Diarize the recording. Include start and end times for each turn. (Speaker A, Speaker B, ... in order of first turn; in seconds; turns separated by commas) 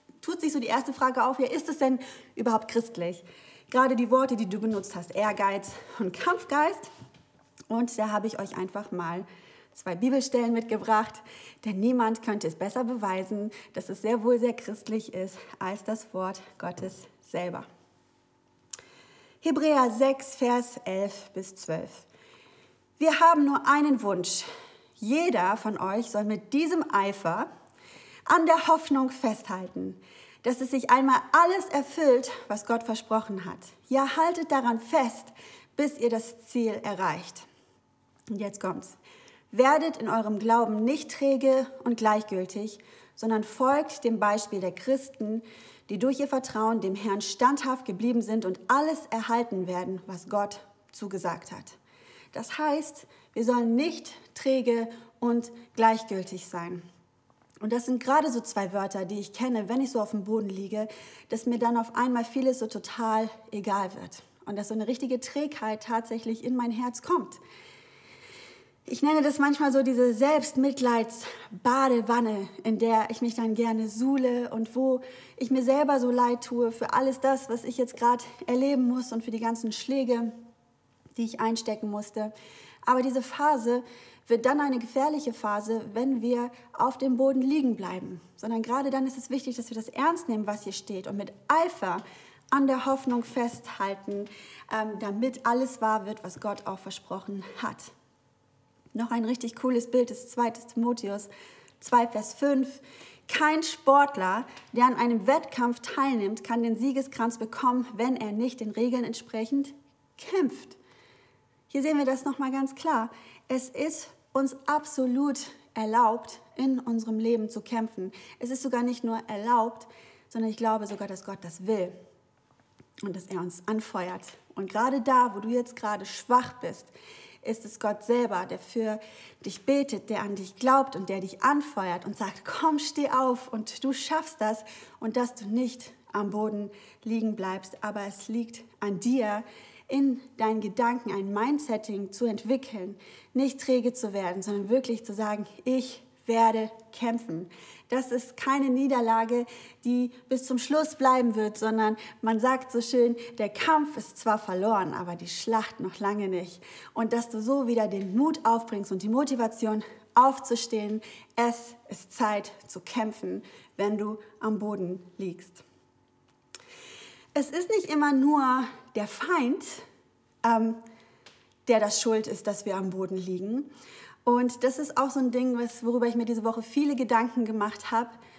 Speaker A: 0.2-6.9, Speaker A: 7.7-17.7, Speaker A: 19.4-22.1, Speaker A: 23.0-24.5, Speaker A: 25.0-27.5, Speaker A: 28.3-37.5, Speaker A: 38.3-39.0, Speaker A: 39.5-51.8, Speaker A: 52.3-56.9, Speaker A: 57.6-67.4, Speaker A: 68.9-80.4, Speaker A: 81.2-82.3, Speaker A: 82.8-97.9, Speaker A: 98.9-101.3, Speaker A: 101.8-110.8, Speaker A: 111.7-122.0, Speaker A: 123.0-126.9, Speaker A: 127.4-165.6, Speaker A: 167.4-169.8, Speaker A: 170.4-170.8, Speaker A: 171.7-173.7, Speaker A: 174.2-178.2